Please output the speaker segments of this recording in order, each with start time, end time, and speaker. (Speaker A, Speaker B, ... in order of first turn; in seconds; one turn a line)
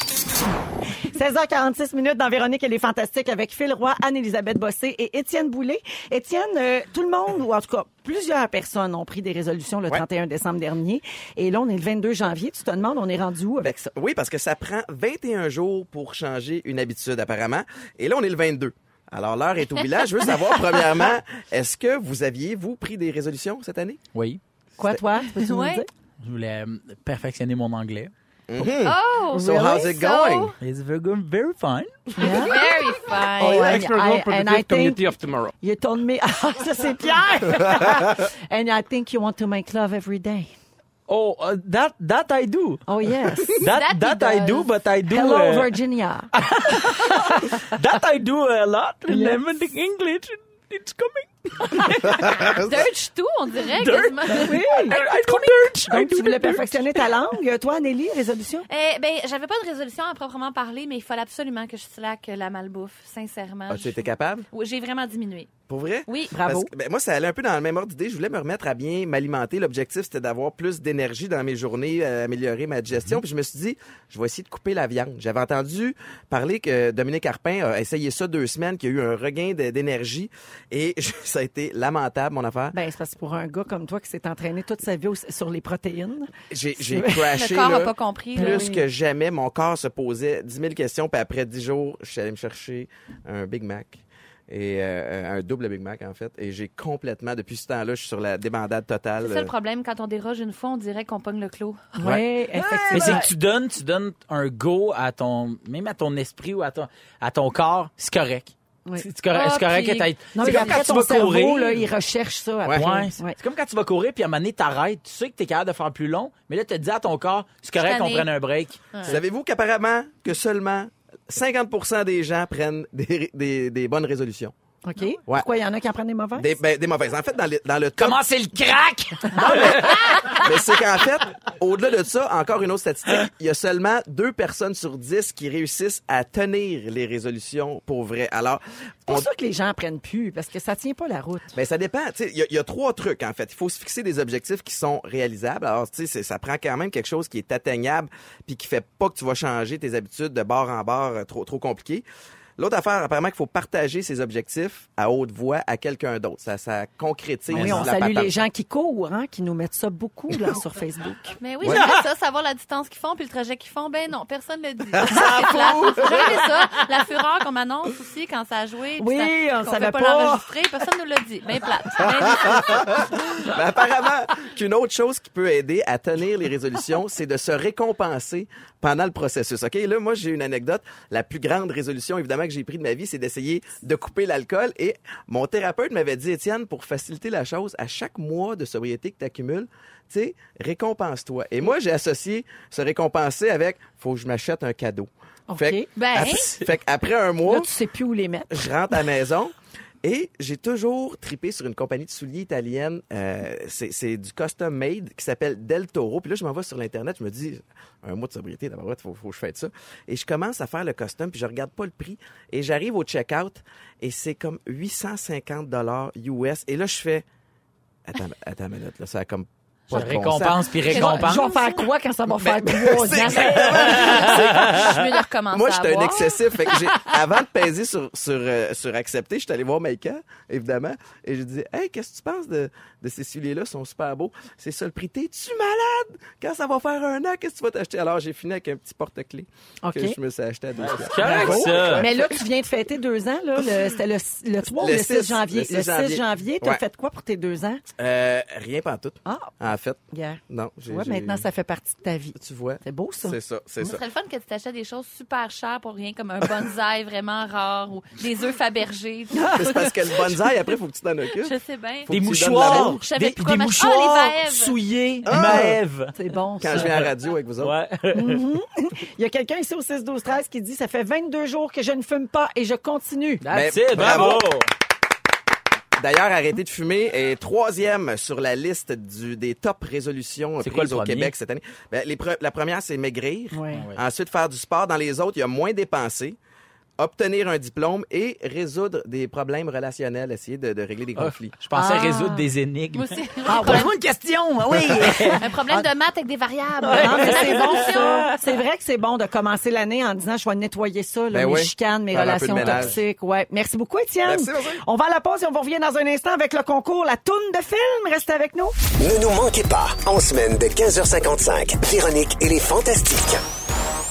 Speaker A: 1.0-13.7
Speaker B: 13.6-24.0
Speaker C: 24.1-24.4
Speaker A: 24.8-25.9
Speaker D: 25.2-25.8
Speaker C: 26.2-28.1
Speaker B: 28.5-30.5
Speaker D: 28.6-30.6
Speaker A: 29.3-29.9
Speaker C: 30.6-32.1
Speaker A: 32.2-32.8
Speaker D: 32.2-33.9
Speaker A: 33.4-40.5
Speaker C: 33.9-35.0
Speaker C: 41.1-42.8
Speaker A: 42.9-43.7
Speaker C: 43.5-45.7
Speaker D: 43.6-44.7
Speaker A: 45.1-46.3
Speaker C: 46.3-52.4
Speaker A: 49.1-49.4
Speaker D: 51.8-55.0
Speaker C: 53.8-57.0
Speaker A: 54.3-58.7
Speaker D: 58.7-65.5
Speaker B: 63.7-64.5
Speaker B: 65.7-82.8
Speaker D: 66.1-66.3
Speaker A: 66.3-66.7
Speaker A: 82.7-87.4
Speaker B: 86.5-99.5
Speaker D: 87.3-88.7
Speaker A: 88.3-88.8
Speaker D: 99.2-102.0
Speaker A: 102.0-103.3
Speaker C: 102.5-111.8
Speaker D: 109.3-110.8
Speaker A: 110.3-113.4
Speaker C: 112.7-119.0
Speaker D: 117.8-118.3
Speaker B: 119.0-124.5
Speaker A: 124.8-126.6
Speaker B: 126.4-128.2
Speaker C: 128.0-130.4
Speaker B: 129.3-139.3
Speaker A: 129.4-129.8
Speaker A: 139.1-141.5
Speaker B: 141.5-152.0
Speaker B: 152.6-158.3
Speaker A: 157.5-161.4
Speaker C: 157.5-157.9
Speaker D: 161.4-173.1
Speaker B: 161.6-161.9
Speaker B: 164.9-166.4
Speaker A: 169.0-170.5
Speaker B: 172.3-197.7
Speaker A: 195.5-195.9
Speaker D: 195.9-196.6
Speaker A: 197.4-198.7
Speaker B: 198.5-217.2
Speaker B: 218.1-220.7
Speaker C: 219.9-221.5
Speaker D: 220.8-221.9
Speaker A: 220.8-224.9
Speaker B: 222.3-242.4
Speaker D: 223.9-226.9
Speaker A: 239.8-240.2
Speaker C: 240.8-242.1
Speaker A: 241.2-247.8
Speaker B: 244.7-246.8
Speaker B: 248.0-251.4
Speaker A: 249.2-249.5
Speaker A: 250.1-253.4
Speaker B: 252.4-254.0
Speaker D: 253.8-260.4
Speaker B: 259.5-261.5
Speaker D: 261.3-264.8
Speaker B: 262.1-263.0
Speaker C: 262.1-266.1
Speaker B: 265.3-265.8
Speaker A: 265.4-266.9
Speaker B: 266.6-267.7
Speaker C: 266.7-268.4
Speaker A: 268.1-273.5
Speaker C: 273.4-274.7
Speaker B: 273.5-274.5
Speaker B: 276.0-286.4
Speaker C: 280.6-281.3
Speaker A: 283.5-283.9
Speaker C: 283.7-284.0
Speaker B: 287.0-291.5
Speaker C: 291.2-295.4
Speaker A: 291.7-292.5
Speaker D: 292.9-293.9
Speaker A: 293.5-293.9
Speaker D: 295.4-298.3
Speaker C: 296.8-298.2
Speaker A: 296.9-308.7
Speaker B: 301.3-303.0
Speaker B: 304.2-304.8
Speaker E: 309.0-313.4